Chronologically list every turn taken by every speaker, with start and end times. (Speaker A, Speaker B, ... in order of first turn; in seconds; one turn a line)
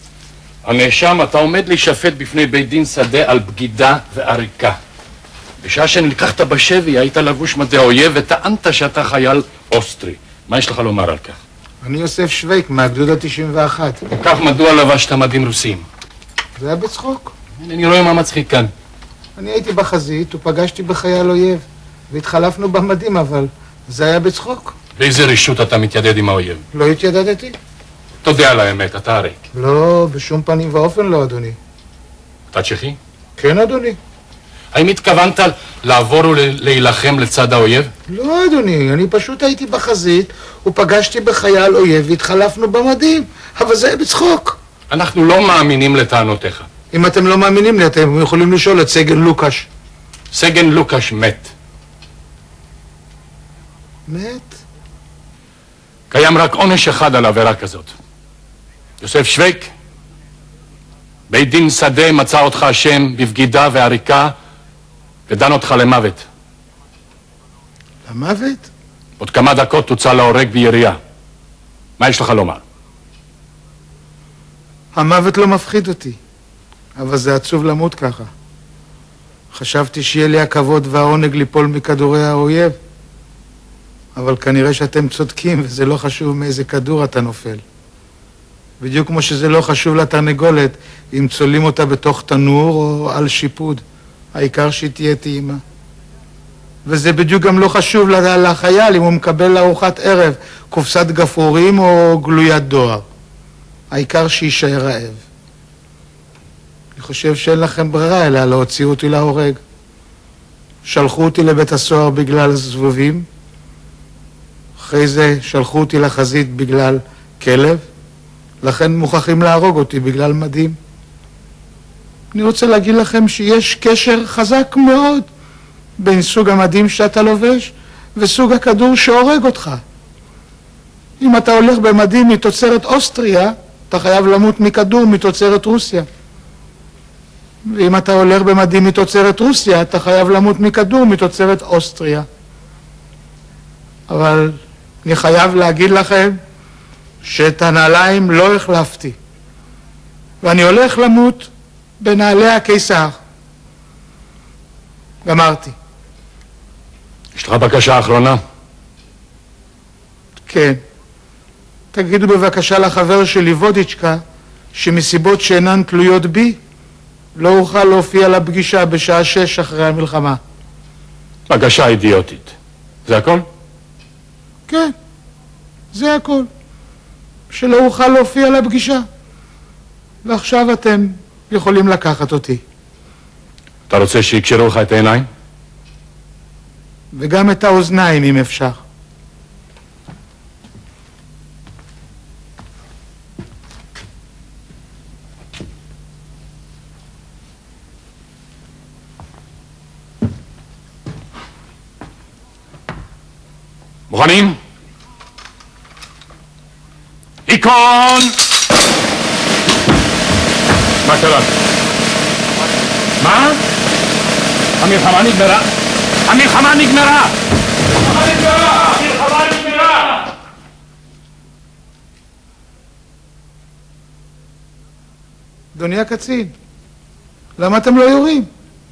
Speaker A: 0.6-4.8
Speaker A: 5.6-11.4
Speaker B: 11.8-14.0
Speaker A: 14.1-15.9
Speaker B: 16.6-17.3
Speaker A: 17.6-18.7
Speaker B: 19.4-24.7
Speaker A: 25.0-26.6
Speaker B: 26.7-27.6
Speaker A: 28.2-29.4
Speaker B: 29.5-31.6
Speaker A: 32.5-33.0
Speaker B: 33.4-34.0
Speaker A: 34.7-37.9
Speaker B: 38.1-44.6
Speaker A: 44.9-46.7
Speaker B: 46.9-49.7
Speaker A: 50.3-51.5
Speaker B: 54.1-54.6
Speaker A: 56.1-57.9
Speaker A: 59.0-59.7
Speaker A: 61.3-64.3
Speaker A: 65.3-66.2
Speaker B: 68.1-68.7
Speaker A: 69.2-71.0
Speaker A: 72.0-72.6
Speaker B: 74.9-76.2
Speaker B: 77.0-78.3
Speaker B: 79.5-82.8
Speaker B: 84.1-87.6
Speaker B: 88.8-93.8
Speaker B: 94.3-95.6
Speaker B: 96.8-103.0
Speaker B: 103.9-105.2
Speaker B: 106.9-109.6
Speaker B: 110.8-113.2
Speaker B: 114.8-117.8
Speaker B: 118.6-120.8
Speaker B: 122.3-125.3
Speaker B: 126.0-129.8
Speaker B: 131.2-136.1
Speaker B: 137.7-142.2
Speaker B: 144.1-146.4
Speaker B: 147.2-149.2
Speaker B: 150.4-153.2
Speaker B: 155.2-155.7
Speaker A: 157.3-158.4
Speaker B: 160.5-160.8
Speaker B: 161.9-164.2
Speaker B: 164.7-166.6
Speaker B: 167.3-170.4
Speaker A: 171.5-172.5
Speaker A: 173.1-173.4
Speaker B: 174.7-174.9
Speaker B: 175.9-176.5
Speaker B: 177.5-179.0
Speaker B: 180.2-182.6
Speaker A: 183.9-185.2
Speaker B: 187.1-188.8
Speaker A: 204.1-204.6
Speaker A: 207.5-208.3
Speaker A: 211.0-211.5
Speaker A: 213.2-213.6
Speaker A: 214.8-215.7
Speaker A: 216.2-217.3
Speaker A: 218.1-220.2
Speaker B: 225.7-226.5
Speaker B: 227.6-228.5